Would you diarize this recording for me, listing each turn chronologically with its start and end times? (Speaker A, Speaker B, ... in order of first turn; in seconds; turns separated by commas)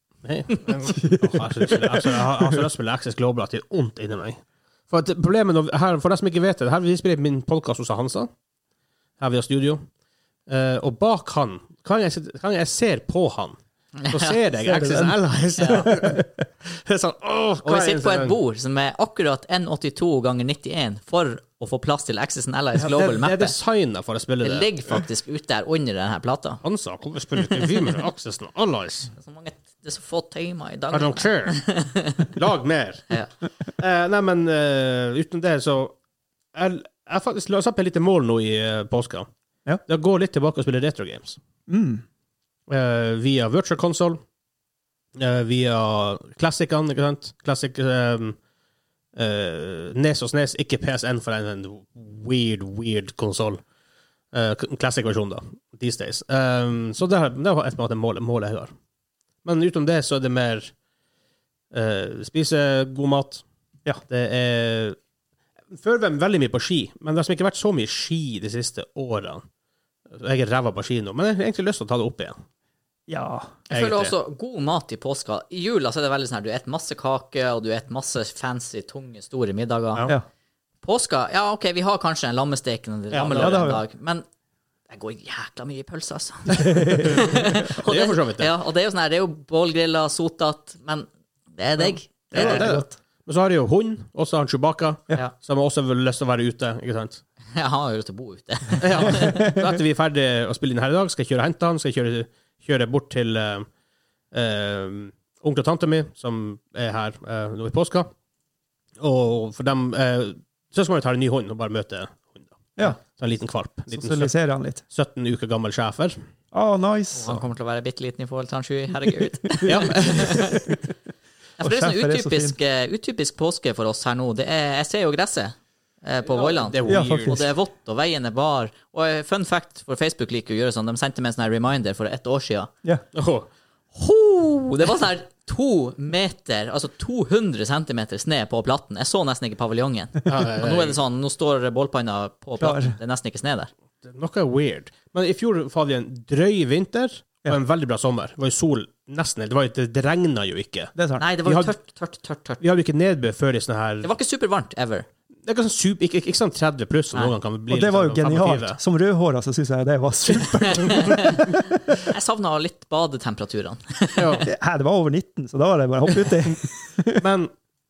Speaker A: 0.2-8.3, Speaker B: 1.0-2.2, Speaker A: 9.2-9.8, Speaker A: 10.5-18.4, Speaker C: 13.9-14.4, Speaker B: 14.6-15.2, Speaker C: 15.6-15.9, Speaker B: 15.7-16.4, Speaker C: 17.6-23.6, Speaker A: 22.8-24.7, Speaker C: 24.4-26.6, Speaker A: 26.6-29.1, Speaker C: 29.2-32.3, Speaker A: 30.9-31.6, Speaker A: 32.2-33.1, Speaker A: 33.8-36.0, Speaker A: 36.5-39.3, Speaker A: 39.9-41.4, Speaker B: 41.7-42.0, Speaker A: 42.7-44.2, Speaker A: 45.1-48.4, Speaker A: 49.1-53.6, Speaker A: 54.3-58.7, Speaker A: 59.4-60.7, Speaker A: 61.7-63.4, Speaker A: 64.1-65.0, Speaker A: 65.7-69.4, Speaker A: 70.1-72.4, Speaker B: 73.1-73.5, Speaker A: 73.7-74.1, Speaker C: 73.7-80.1, Speaker C: 80.8-84.2, Speaker A: 83.1-83.7, Speaker B: 83.3-83.8, Speaker C: 84.9-92.7, Speaker B: 86.6-87.4, Speaker A: 86.9-88.5, Speaker A: 92.3-97.2, Speaker B: 92.3-92.9, Speaker C: 97.5-99.5, Speaker A: 98.8-103.7, Speaker B: 99.3-99.6, Speaker A: 104.3-108.1, Speaker A: 109.0-114.3, Speaker B: 113.9-114.8, Speaker A: 114.9-116.2, Speaker B: 116.5-117.4, Speaker C: 117.1-120.6, Speaker B: 119.5-120.8, Speaker A: 119.6-120.5, Speaker C: 121.6-132.7, Speaker B: 121.6-122.6, Speaker A: 126.3-127.5, Speaker B: 126.9-127.5, Speaker A: 133.1-133.5, Speaker C: 133.9-143.7, Speaker A: 140.3-141.0, Speaker B: 142.6-142.9, Speaker A: 144.0-150.9, Speaker B: 150.9-151.3, Speaker C: 151.2-152.6, Speaker A: 151.4-151.7, Speaker A: 152.6-154.1, Speaker C: 154.0-155.1, Speaker A: 155.4-158.8, Speaker B: 157.7-162.0, Speaker C: 160.7-164.4, Speaker A: 164.2-164.4, Speaker B: 164.4-167.2, Speaker A: 167.2-167.5